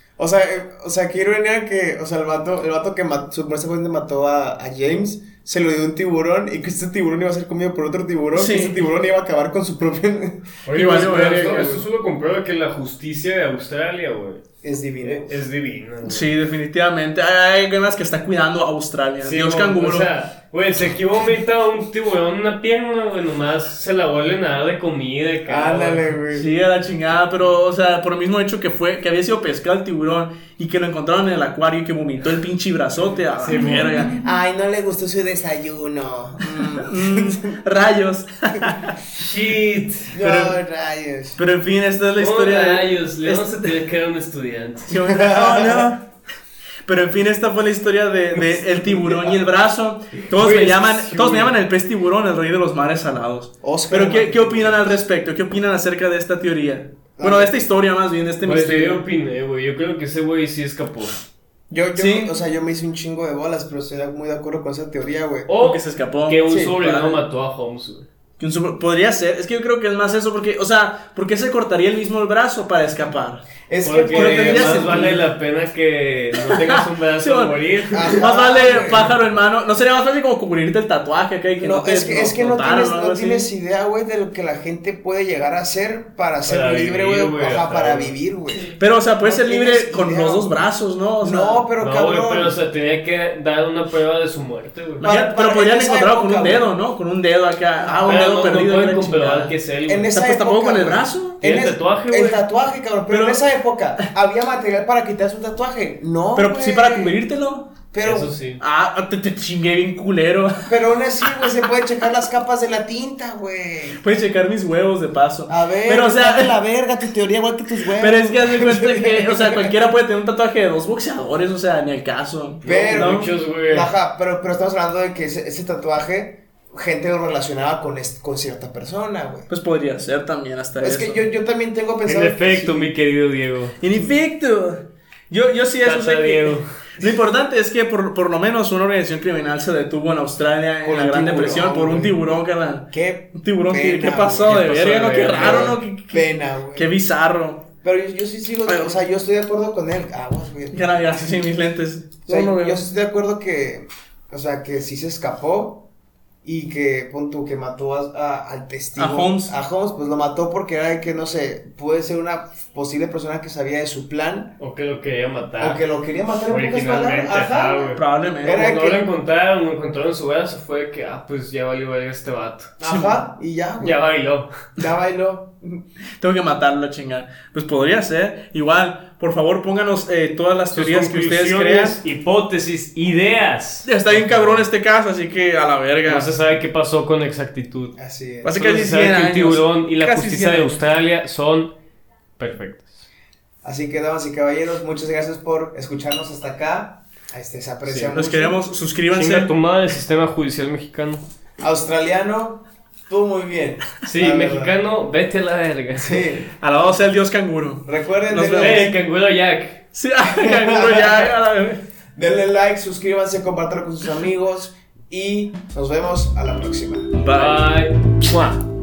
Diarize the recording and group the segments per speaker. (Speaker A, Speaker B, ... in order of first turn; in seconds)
Speaker A: 0.2-10.6, 14.6-15.4, 25.5-26.5, 34.1-37.6, 40.1-41.4, 45.1-45.9, 48.7-49.4, 53.6-54.9, 57.2-57.6, 61.7-65.5, 73.7-75.2, 77.9-79.2, 81.6-90.5, 91.2-92.6, 95.0-96.7, 99.9-107.2, 107.9-108.3, 110.7-114.0, 115.5-119.7, 122.7-129.5, 130.8-132.9, 140.8-142.2, 142.9-144.7, 145.3-146.9, 147.8-151.0, 152.3-155.8, 156.4-164.6, 165.6-169.1, 172.8-174.0, 174.8-175.8, 188.0-188.6, 193.6-198.6, 201.6-204.8, 206.0-206.5, 207.9-208.9, 210.3-211.3, 212.2-217.1
Speaker B: 8.3-8.9, 10.7-11.8, 16.1-20.1, 26.3-34.2, 36.6-38.9, 40.2-40.6, 41.4-43.8, 44.9-46.1, 46.9-59.0, 61.9-62.3, 65.6-67.2, 68.4-73.5, 74.2-75.3, 76.5-77.6, 78.1-83.5, 88.8-91.7, 95.0-99.5, 100.1-101.4, 103.1-103.4, 106.3-107.8, 108.6-110.7, 114.0-116.6, 118.0-123.3, 129.5-131.2, 133.8-147.7, 148.7-149.0, 150.7-152.8, 159.0-159.6, 168.0-168.6, 172.8-173.2, 176.2-182.0, 183.9-186.3, 188.4-190.7, 198.1-199.5, 206.6-208.9, 209.9-211.8, 217.2-217.8
Speaker C: 10.7-14.4, 15.0-16.3, 19.2-26.1, 33.4-34.1, 39.1-40.1, 42.2-45.0, 50.2-51.6, 58.4-61.2, 65.5-68.1, 73.8-78.2, 86.5-88.1, 91.8-95.0, 98.0-100.1, 101.4-102.4, 108.0-108.6, 122.6-123.9, 132.1-133.8, 135.8-136.7, 144.5-145.8, 164.6-165.8, 166.5-172.7, 173.8-174.5, 180.7-184.6, 186.1-187.9, 188.5-191.7, 192.4-193.1, 197.8-198.2, 199.1-201.2, 204.0-206.3, 208.6-209.8, 217.3-218.6